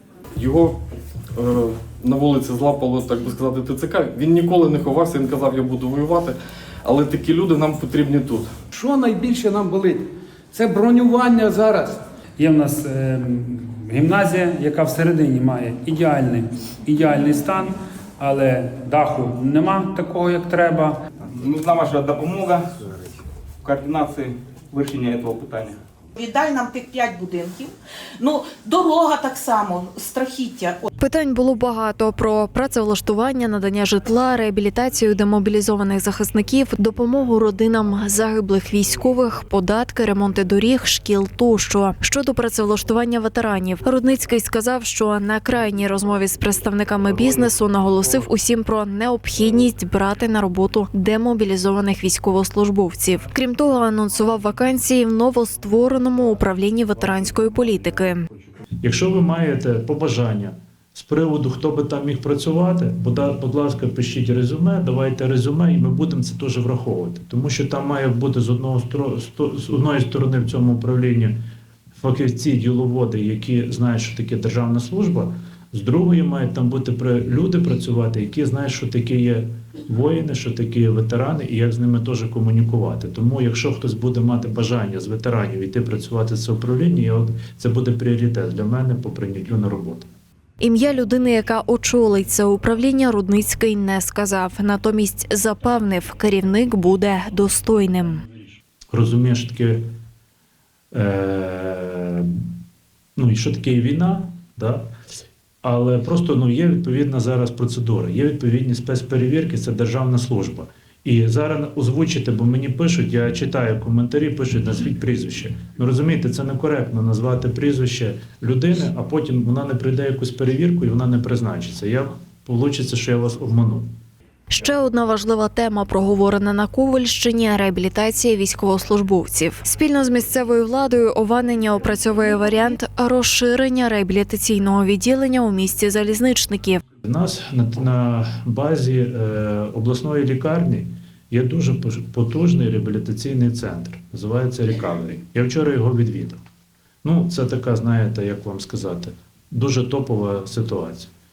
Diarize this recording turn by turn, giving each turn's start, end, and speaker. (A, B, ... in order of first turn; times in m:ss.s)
0:00.4-0:00.8 A
0:01.3-0:08.5 A
0:08.7-0:10.0 B
0:10.5-0:12.0 B
0:12.4-0:21.0 C
0:21.2-0:22.9 D
0:23.6-0:25.8 D
0:26.2-0:30.9 E
0:31.0-0:58.2 F
0:58.8-1:11.3 G
1:12.0-1:30.1 G
1:30.6-1:38.2 F
1:38.9-1:39.8 G
1:40.9-1:42.4 G
1:43.2-1:44.9 G
1:45.6-2:03.9 G
2:04.5-2:16.8 F
2:17.0-2:26.4 G
2:27.0-2:31.1 G